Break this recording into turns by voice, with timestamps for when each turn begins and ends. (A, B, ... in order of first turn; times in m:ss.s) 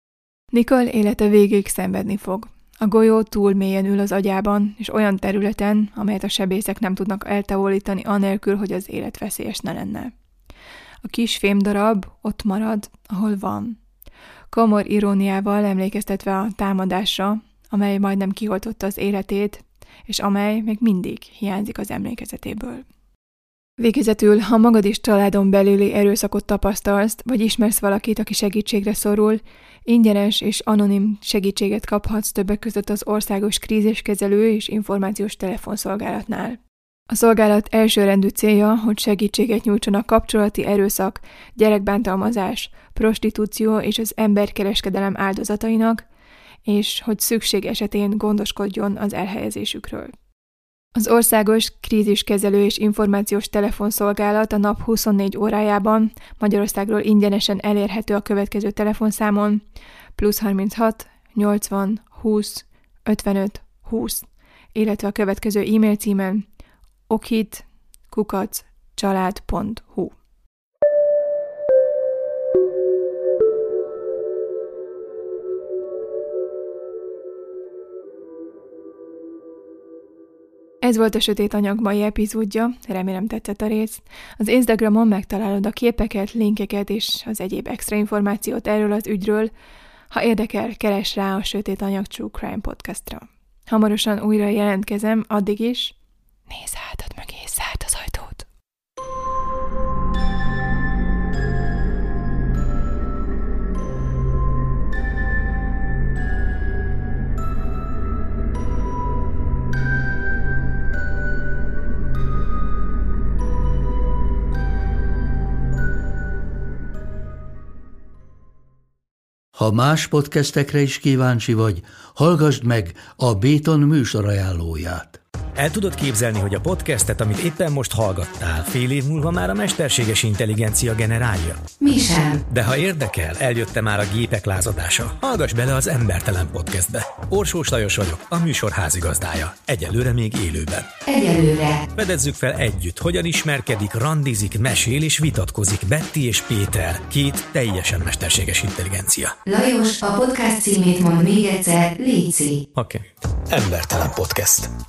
0:00.5-0:10.1 A
0:11.0-0:13.8 A
0:14.5-0:22.8 A
0:23.8-0:36.6 A
0:37.1-0:46.0 A
0:46.6-0:50.1 A
0:50.9-0:59.6 A
1:00.2-1:06.4 A
1:07.1-1:10.1 A
1:20.8-1:29.5 A
1:30.1-1:35.9 A
1:36.5-1:38.5 A
1:59.6-2:05.2 B
2:05.6-2:11.7 C
2:11.8-2:12.4 D
2:12.5-2:20.9 C
2:21.1-2:21.8 D
2:21.9-2:29.4 C
2:29.5-2:32.6 D
2:32.7-2:34.7 C